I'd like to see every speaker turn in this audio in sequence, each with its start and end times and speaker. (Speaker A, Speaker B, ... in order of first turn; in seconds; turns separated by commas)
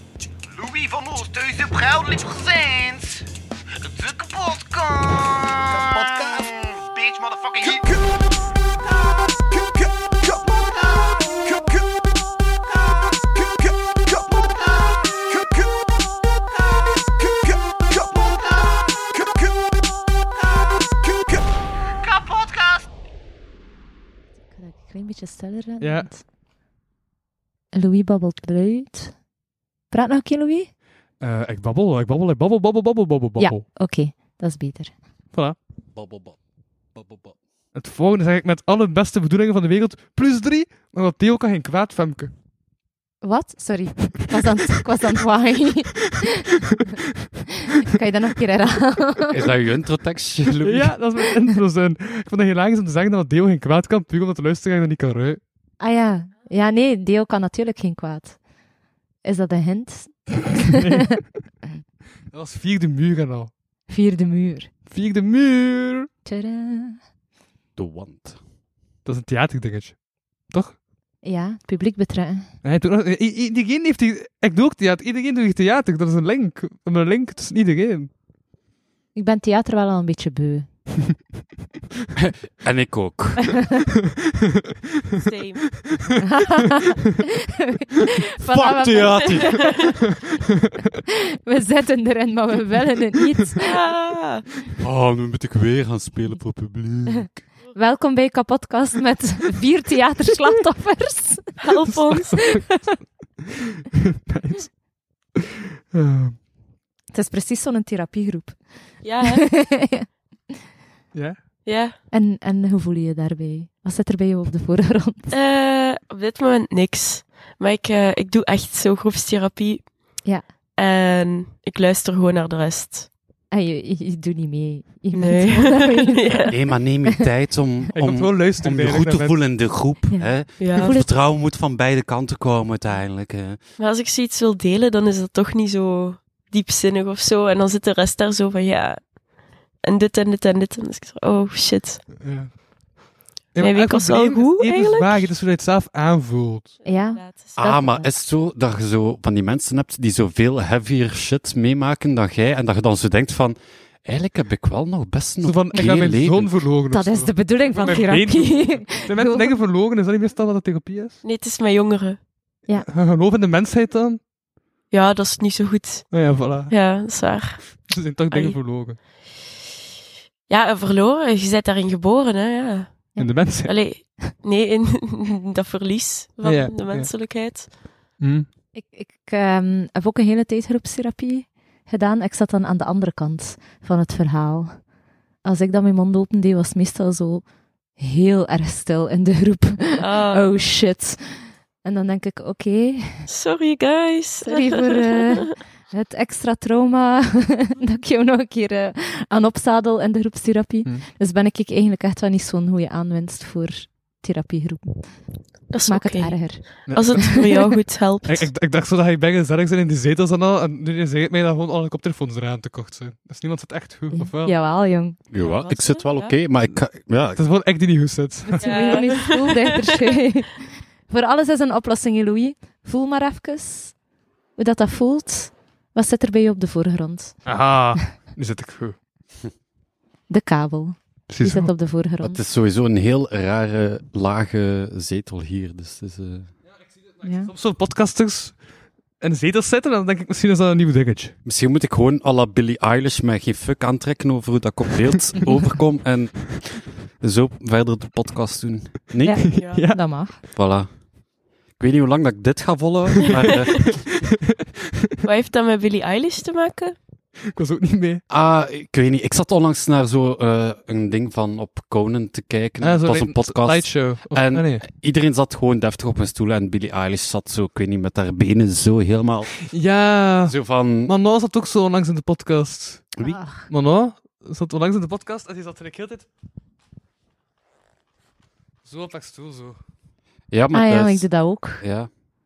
Speaker A: 0.5-3.2, Speaker A: 3.8-8.0, Speaker A: 10.4-11.7, Speaker A: 14.2-15.0, Speaker A: 18.6-18.9, Speaker A: 22.0-22.8, Speaker B: 24.5-26.2, Speaker C: 25.8-26.1, Speaker B: 27.7-29.1, Speaker B: 29.9-30.7, Speaker C: 31.2-33.6, Speaker B: 33.4-34.9, Speaker D: 35.9-36.4, Speaker D: 36.9-37.4, Speaker C: 37.7-42.3, Speaker B: 43.2-46.2, Speaker B: 47.9-49.4, Speaker D: 49.3-50.9, Speaker C: 50.6-55.4, Speaker B: 55.8-58.4, Speaker B: 59.2-60.7, Speaker C: 60.8-61.3, Speaker C: 62.3-63.5, Speaker B: 63.9-64.7, Speaker C: 64.9-66.1, Speaker B: 66.2-67.0, Speaker D: 67.8-68.4, Speaker C: 69.0-70.8, Speaker B: 71.2-72.5, Speaker C: 72.6-78.1, Speaker B: 79.1-80.7, Speaker D: 82.2-83.6, Speaker E: 85.2-85.8, Speaker B: 86.2-87.0, Speaker B: 88.4-89.9, Speaker D: 88.5-90.0, Speaker B: 91.5-93.8, Speaker E: 93.6-94.5, Speaker D: 94.8-97.3, Speaker B: 97.7-101.7, Speaker E: 101.6-102.5, Speaker C: 101.9-103.1, Speaker B: 102.3-102.7, Speaker C: 104.3-104.8, Speaker C: 105.9-106.4, Speaker B: 107.1-110.0, Speaker E: 109.0-109.6, Speaker C: 111.1-111.4, Speaker E: 111.7-112.0, Speaker B: 112.1-115.3, Speaker E: 115.3-123.1, Speaker B: 123.5-127.1, Speaker E: 125.1-126.5, Speaker D: 126.5-133.6, Speaker C: 128.0-129.4, Speaker B: 130.1-131.1, Speaker E: 130.6-130.9, Speaker E: 133.8-142.1, Speaker C: 142.2-142.7, Speaker C: 143.5-146.8, Speaker E: 143.6-145.3, Speaker E: 146.8-147.6, Speaker B: 146.8-148.1, Speaker D: 147.5-156.7, Speaker C: 155.4-161.2, Speaker B: 156.9-159.6, Speaker E: 161.2-162.2, Speaker C: 162.9-164.2, Speaker E: 164.9-168.6, Speaker C: 166.1-166.7, Speaker C: 167.8-169.0, Speaker E: 170.5-177.7, Speaker B: 173.2-173.5, Speaker C: 173.2-173.7, Speaker C: 176.4-177.1, Speaker C: 178.2-178.5, Speaker B: 178.7-184.9, Speaker B: 185.4-187.4, Speaker B: 188.0-193.3, Speaker E: 190.0-190.7, Speaker E: 193.3-195.5, Speaker B: 194.4-207.6, Speaker E: 205.7-208.5, Speaker C: 206.9-207.4, Speaker C: 208.2-214.5, Speaker B: 214.1-215.2, Speaker D: 215.3-217.4, Speaker E: 215.4-216.3, Speaker C: 217.3-218.9, Speaker B: 218.5-224.0, Speaker E: 218.6-219.8, Speaker B: 224.6-227.5, Speaker C: 227.4-229.0, Speaker B: 230.3-232.4, Speaker C: 231.3-231.7, Speaker D: 232.2-236.5, Speaker B: 237.2-237.5, Speaker C: 237.5-238.6, Speaker C: 239.2-241.3, Speaker D: 241.4-249.6, Speaker B: 249.2-250.4, Speaker E: 249.6-249.8, Speaker C: 249.6-250.0, Speaker D: 250.5-251.0, Speaker D: 251.8-254.2, Speaker C: 253.2-254.0, Speaker E: 255.2-257.0, Speaker C: 257.5-258.2, Speaker D: 258.3-269.7, Speaker C: 262.8-264.8, Speaker C: 269.7-273.1, Speaker D: 270.4-271.1, Speaker B: 273.2-273.7, Speaker C: 273.7-276.3, Speaker C: 278.8-279.8, Speaker D: 280.5-282.1, Speaker B: 280.7-281.8